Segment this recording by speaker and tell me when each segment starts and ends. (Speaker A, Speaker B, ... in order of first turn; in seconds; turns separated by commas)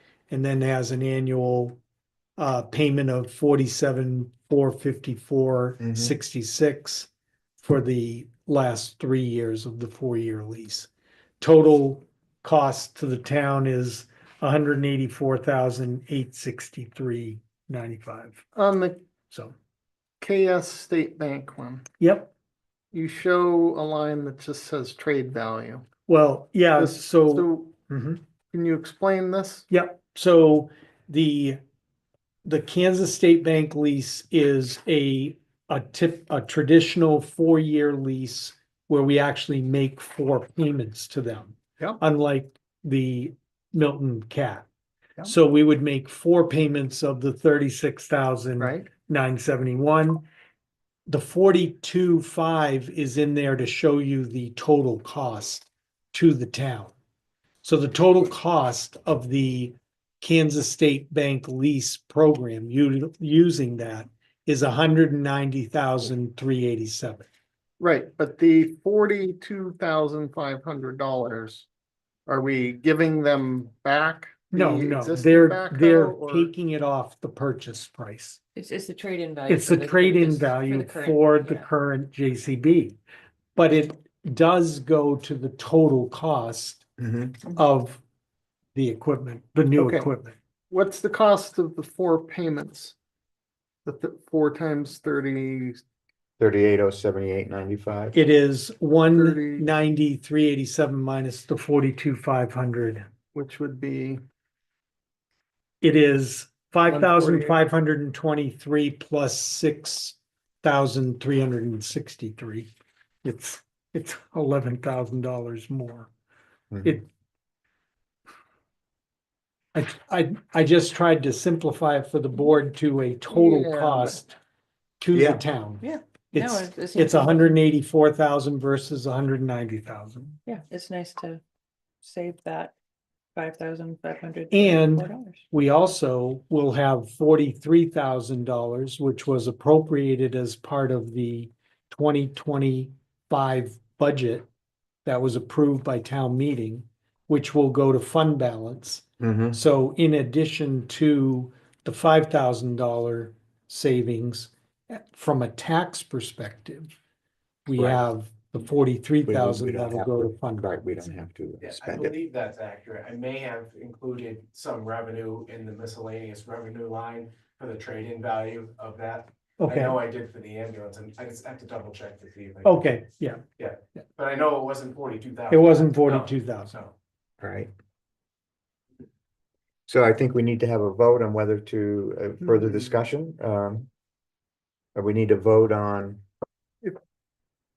Speaker A: 0.3-1.8, Speaker A: 2.4-10.9, Speaker B: 5.8-6.1, Speaker A: 11.4-18.4, Speaker C: 18.6-19.0, Speaker C: 20.2-21.9, Speaker A: 22.0-22.3, Speaker C: 22.9-25.9, Speaker A: 26.1-28.2, Speaker C: 26.8-27.7, Speaker C: 28.5-29.6, Speaker A: 29.7-31.6, Speaker A: 32.5-44.7, Speaker A: 45.2-50.2, Speaker C: 48.6-48.9, Speaker A: 51.1-56.9, Speaker A: 57.6-67.3, Speaker C: 67.8-71.7, Speaker C: 72.3-76.5, Speaker A: 74.5-78.4, Speaker D: 78.6-81.7, Speaker A: 79.5-83.0, Speaker A: 83.5-86.9, Speaker B: 87.0-87.3, Speaker A: 87.5-88.0, Speaker A: 88.8-90.4, Speaker C: 89.8-90.1, Speaker C: 90.7-93.0, Speaker C: 93.8-95.8, Speaker B: 96.4-98.2, Speaker A: 98.1-103.1, Speaker C: 99.1-99.7, Speaker C: 103.3-104.2, Speaker A: 105.8-112.7, Speaker C: 106.9-107.6, Speaker A: 113.2-116.1, Speaker B: 116.7-117.0, Speaker A: 119.8-124.3, Speaker C: 123.3-124.2, Speaker A: 125.0-130.4, Speaker B: 125.1-125.4, Speaker D: 125.8-127.6, Speaker D: 130.5-131.4, Speaker D: 132.0-132.7, Speaker D: 133.3-135.4, Speaker A: 134.5-144.5, Speaker A: 145.1-156.9, Speaker B: 149.2-149.6, Speaker A: 157.7-160.8, Speaker B: 157.7-158.0, Speaker B: 159.3-162.2, Speaker E: 161.6-172.8, Speaker A: 169.6-170.0, Speaker A: 172.6-173.4, Speaker E: 173.6-176.9, Speaker A: 175.5-176.7, Speaker B: 177.4-177.7, Speaker B: 179.9-183.9, Speaker B: 184.9-186.2